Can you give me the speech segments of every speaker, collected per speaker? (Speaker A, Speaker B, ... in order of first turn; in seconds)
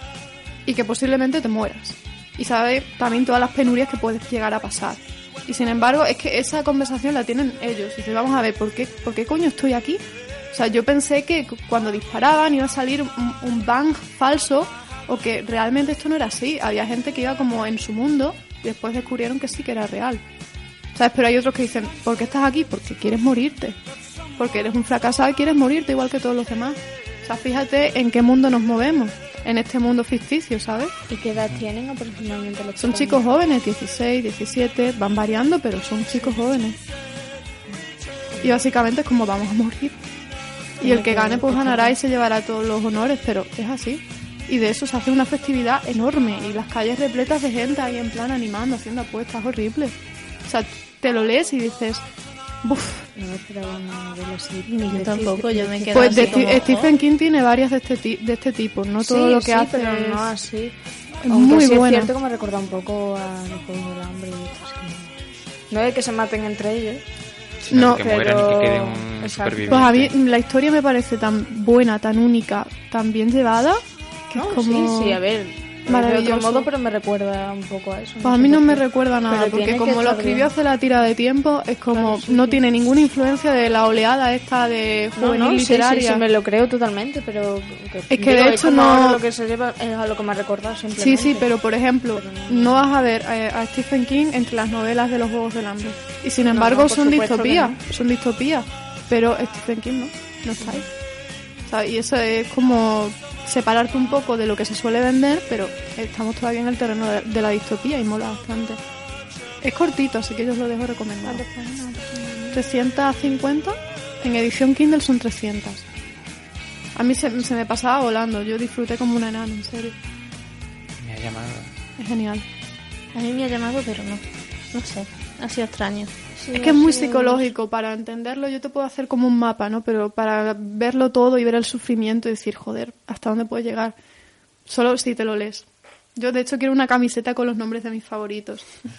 Speaker A: 0.7-10.0, 10.5-20.2, 20.9-23.8, 24.4-30.9, 32.8-36.8, 38.4-40.0, 40.8-49.9, 50.5-52.0, 52.6-53.1, 55.9-60.3, 61.2-62.1, 67.7-68.0, 69.7-75.2, 75.9-76.7, 78.2-86.2, 88.1-89.2, 91.0-100.9, 101.7-108.8, 109.6-111.5, 112.5-115.8, 116.9-119.9, 122.0-122.4, 126.5-133.9, 134.7-138.7
Speaker B: 31.1-33.2, 38.3-38.6, 40.8-42.0, 53.1-56.5, 59.0-67.0, 67.8-69.8, 74.3-80.5, 81.9-82.6, 85.2-91.5, 92.2-92.8, 96.5-97.8, 100.6-100.8, 111.2-112.6, 126.4-127.5
Speaker C: 54.7-56.9, 123.1-126.2
Speaker D: 67.6-70.1, 121.0-121.8